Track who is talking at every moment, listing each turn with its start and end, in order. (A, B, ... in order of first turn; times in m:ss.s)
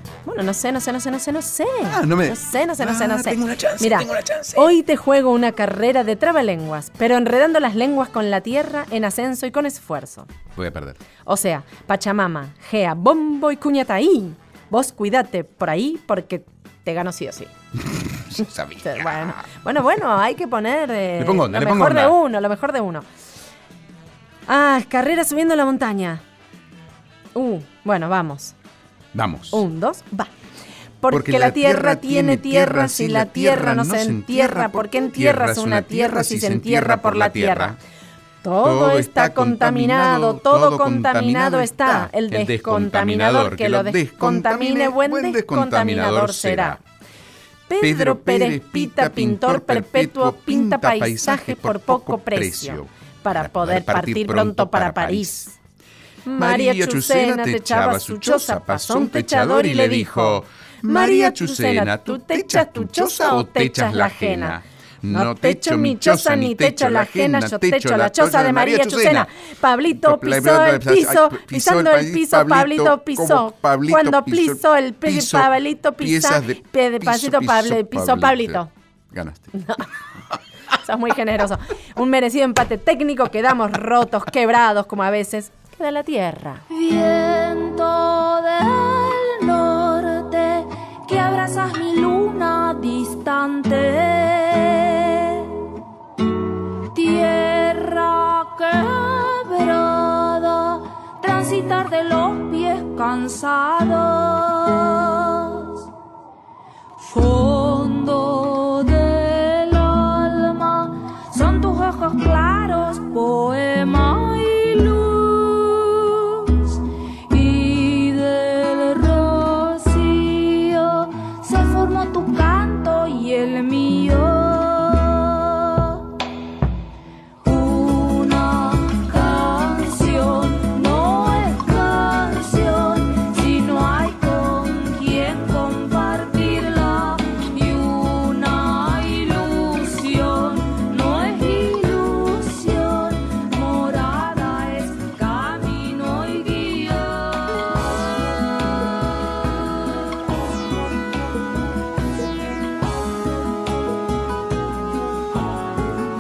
0:00.2-0:10.3 A
0:01.9-0:04.7 B
0:10.5-0:11.0 B
0:11.2-0:17.5 A
0:18.0-0:19.4 B
0:18.8-0:23.1 A
0:21.2-0:22.2 B
0:24.5-0:26.2 A
0:27.4-0:28.5 A
0:29.1-0:29.6 B
0:29.5-0:30.3 A
0:31.0-0:37.8 A
0:31.1-0:37.8 B
0:38.4-0:46.8 A
0:38.6-0:46.8 B
0:47.7-0:55.5 A
0:47.8-0:55.5 B
0:56.2-1:04.6 A
0:56.4-1:09.3 B
1:05.1-1:18.7 A
1:09.9-1:19.5 B
1:19.6-1:19.9 A
1:20.7-1:26.6 A
1:26.7-1:35.5 C
1:36.9-1:45.8 C
1:47.0-1:56.7 C
1:57.3-2:06.0 C
2:07.4-2:27.9 C